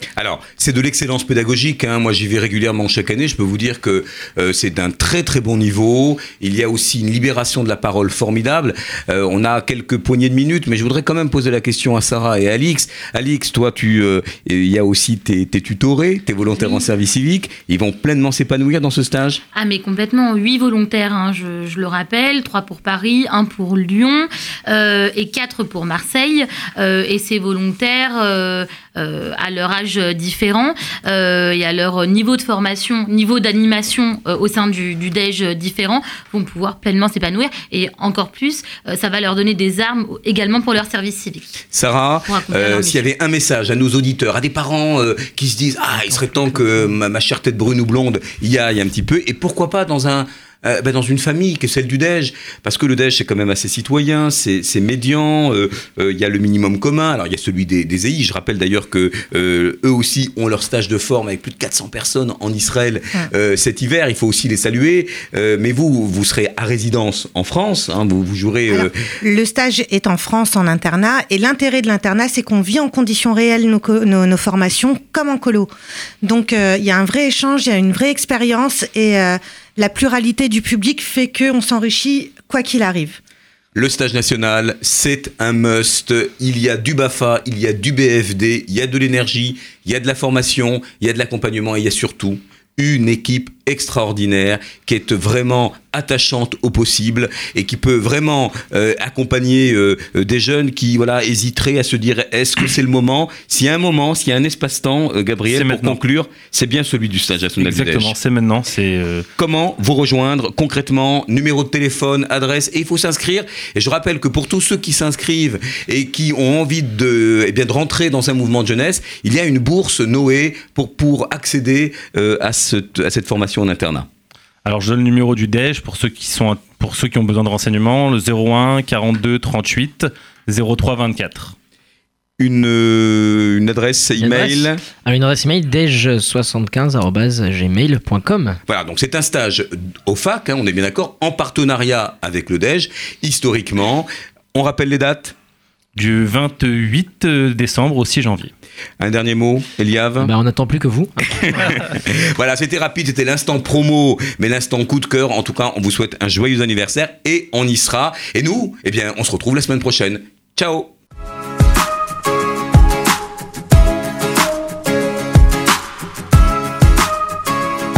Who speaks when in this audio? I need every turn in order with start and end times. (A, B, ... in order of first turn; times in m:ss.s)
0:00.2-0:19.4 A
0:19.5-0:41.6 B
0:41.7-1:08.9 A
0:42.3-0:43.1 B
0:46.1-0:46.9 C
1:08.7-1:15.7 D
1:16.2-1:23.2 D
1:23.8-1:48.1 A
1:45.5-1:46.0 E
1:47.6-1:49.3 E
1:49.4-2:04.1 A
2:04.6-2:11.6 E
2:12.4-2:14.8 A
2:14.2-2:18.6 C
2:18.7-2:25.4 A
2:26.0-2:28.5 E
2:29.0-2:30.3 A
2:30.2-2:31.3 C
2:31.2-2:40.9 A